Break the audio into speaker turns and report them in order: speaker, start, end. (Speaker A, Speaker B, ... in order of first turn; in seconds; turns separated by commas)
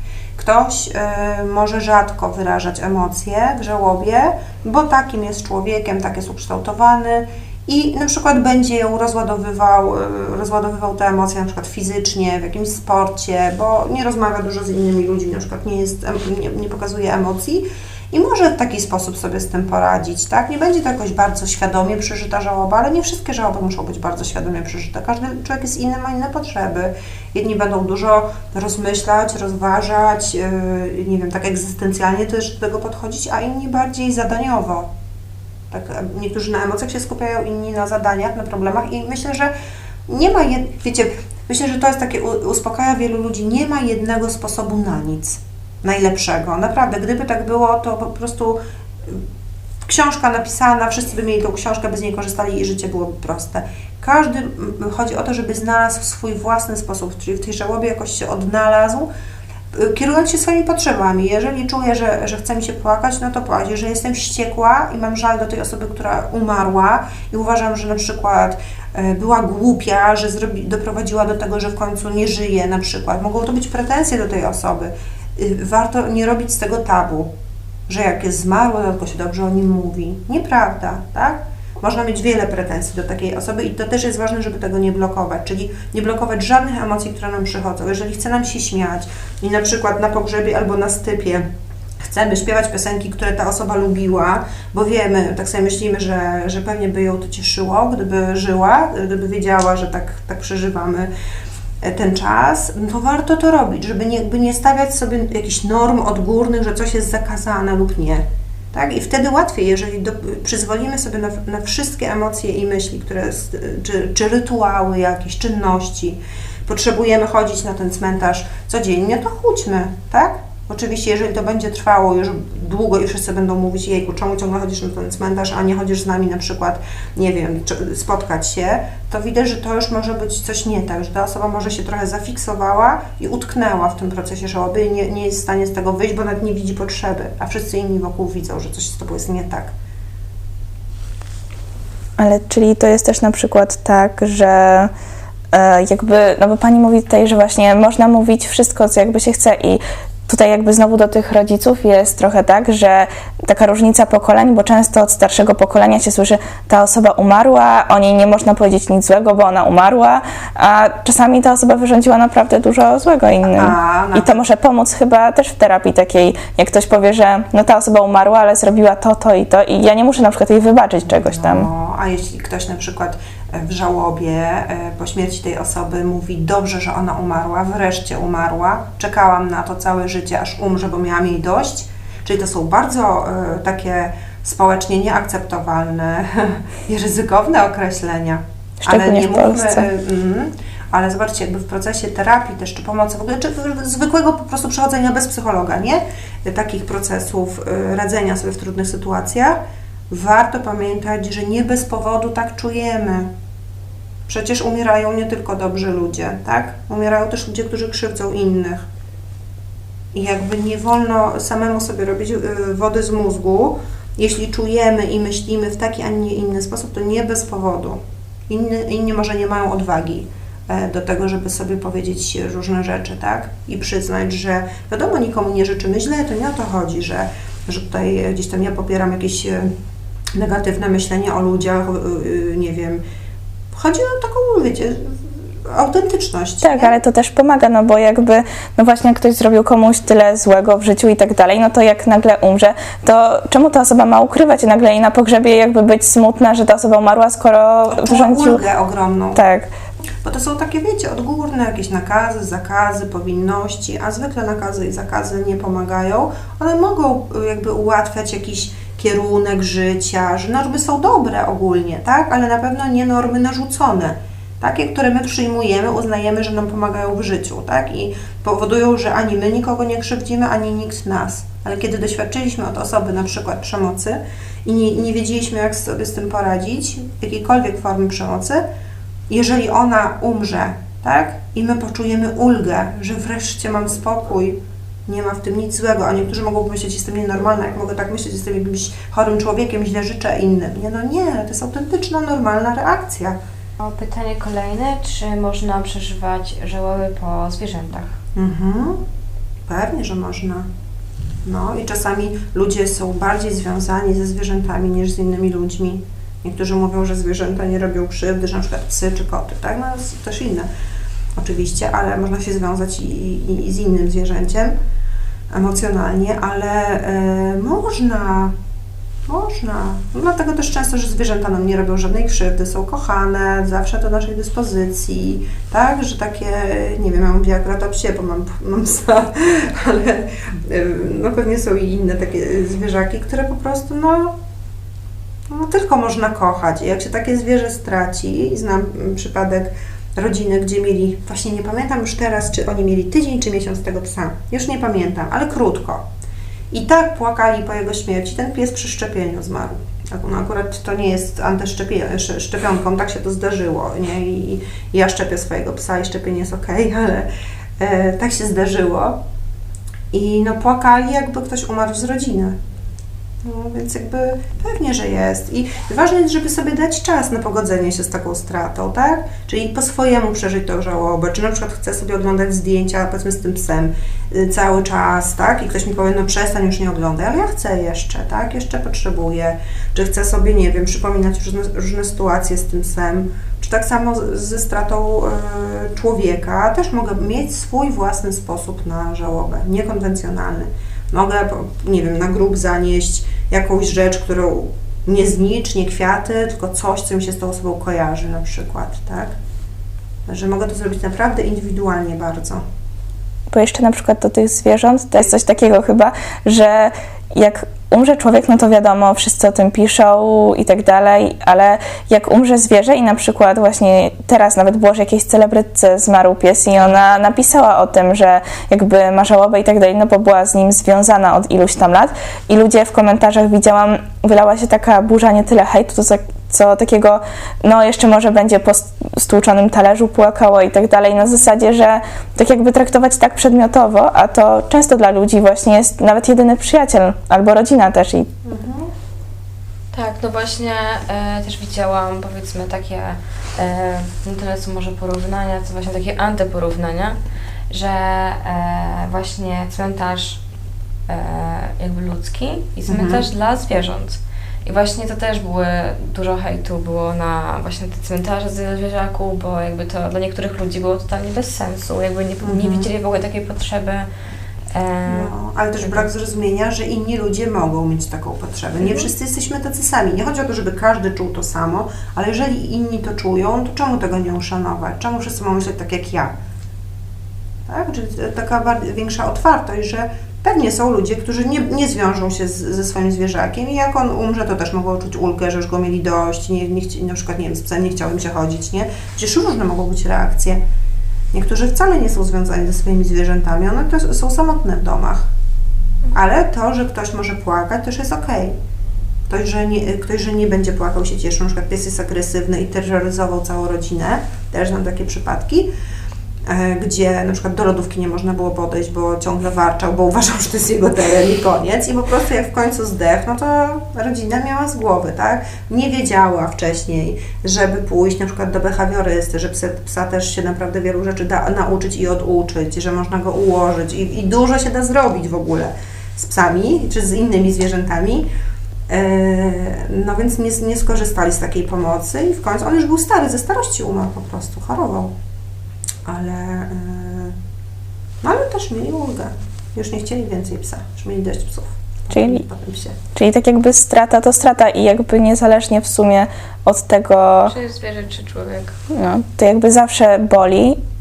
Speaker A: 0.3-34.9, Speaker A: 35.7-39.5, Speaker A: 40.1-49.2, Speaker A: 49.8-59.1, Speaker A: 59.7-77.3, Speaker A: 77.9-91.4, Speaker A: 92.0-101.1, Speaker A: 101.8-139.7, Speaker B: 142.2-144.9, Speaker B: 145.5-171.7, Speaker A: 163.5-164.4, Speaker A: 171.0-199.6, Speaker B: 188.8-189.8, Speaker A: 200.1-203.3, Speaker A: 204.3-208.8, Speaker A: 210.1-218.0, Speaker A: 218.5-229.7, Speaker A: 230.3-233.0, Speaker A: 233.7-237.0, Speaker B: 236.6-248.6, Speaker A: 247.9-249.4, Speaker B: 249.3-249.7, Speaker A: 250.2-278.6, Speaker A: 279.3-293.4, Speaker C: 293.8-298.1, Speaker A: 298.4-299.0, Speaker A: 299.7-300.6, Speaker A: 301.4-310.7, Speaker A: 311.4-314.7, Speaker A: 315.5-318.5, Speaker A: 319.3-334.3, Speaker A: 335.5-346.0, Speaker A: 346.7-357.3, Speaker A: 357.8-359.2, Speaker A: 360.1-362.5, Speaker A: 363.4-399.3, Speaker A: 400.3-402.6, Speaker B: 403.5-438.3, Speaker A: 438.4-438.9, Speaker C: 439.9-447.2, Speaker C: 447.7-450.4, Speaker C: 451.1-464.1, Speaker A: 452.9-453.2, Speaker A: 462.4-462.9, Speaker C: 464.7-466.1, Speaker A: 465.1-476.3, Speaker C: 468.8-469.1, Speaker A: 477.7-490.6, Speaker A: 491.3-495.3, Speaker A: 496.1-498.5, Speaker A: 499.3-505.7, Speaker A: 506.5-528.3, Speaker A: 528.9-535.1, Speaker A: 536.0-537.3, Speaker A: 538.2-543.0, Speaker B: 542.1-542.4, Speaker B: 543.1-547.5, Speaker C: 547.5-548.8, Speaker B: 548.9-550.8